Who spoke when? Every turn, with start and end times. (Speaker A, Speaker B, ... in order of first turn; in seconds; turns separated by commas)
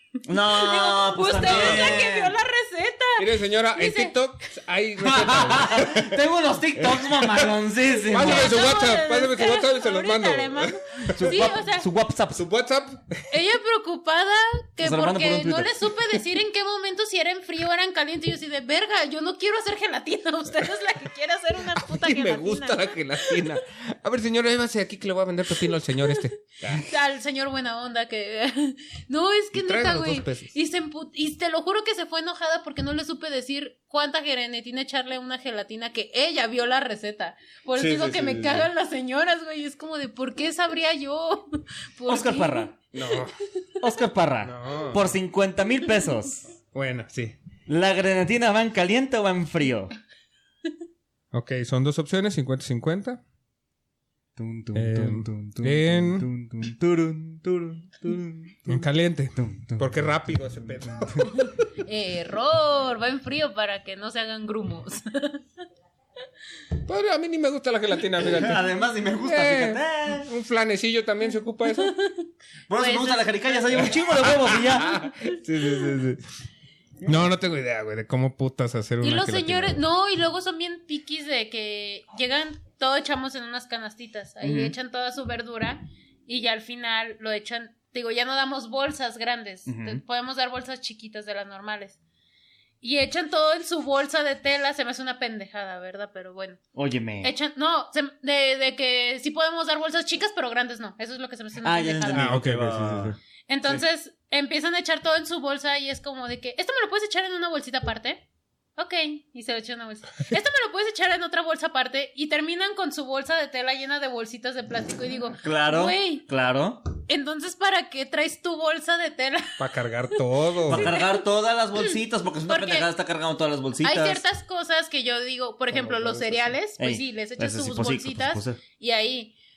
Speaker A: 0.3-2.4, Speaker B: 0.3-4.2, Speaker C: 1.5-2.0, Speaker C: 3.2-6.2, Speaker A: 5.0-8.6, Speaker C: 6.8-7.6, Speaker C: 8.1-11.4, Speaker B: 8.1-11.9, Speaker A: 11.1-12.4, Speaker C: 12.3-13.2, Speaker B: 13.3-23.5, Speaker A: 14.8-15.9, Speaker C: 21.7-26.9, Speaker B: 26.1-43.2, Speaker C: 29.6-30.5, Speaker C: 37.8-38.7, Speaker A: 42.1-42.8, Speaker C: 42.9-43.3, Speaker A: 43.8-46.5, Speaker C: 44.4-45.1, Speaker C: 46.7-47.4, Speaker A: 47.7-50.0, Speaker C: 51.3-53.2, Speaker A: 54.4-58.8, Speaker C: 54.7-56.3, Speaker C: 58.7-61.3, Speaker A: 59.4-60.1, Speaker A: 60.9-61.2, Speaker B: 61.3-65.4, Speaker C: 66.9-68.6, Speaker A: 68.2-70.3, Speaker C: 69.2-71.9, Speaker B: 71.7-74.0, Speaker A: 72.7-75.0, Speaker C: 73.8-76.2, Speaker A: 75.7-76.1, Speaker C: 77.0-79.8, Speaker B: 79.0-92.0, Speaker A: 84.4-84.8, Speaker A: 89.7-90.0, Speaker B: 92.8-96.6, Speaker A: 96.7-97.3, Speaker B: 97.2-102.4, Speaker A: 101.6-103.8, Speaker C: 102.1-103.2, Speaker B: 103.5-116.3, Speaker A: 115.4-116.8, Speaker B: 117.1-119.6, Speaker C: 119.6-120.9, Speaker B: 120.2-121.2, Speaker A: 120.7-124.2, Speaker B: 122.5-122.9, Speaker B: 123.8-129.3, Speaker C: 125.7-126.6, Speaker A: 126.8-128.6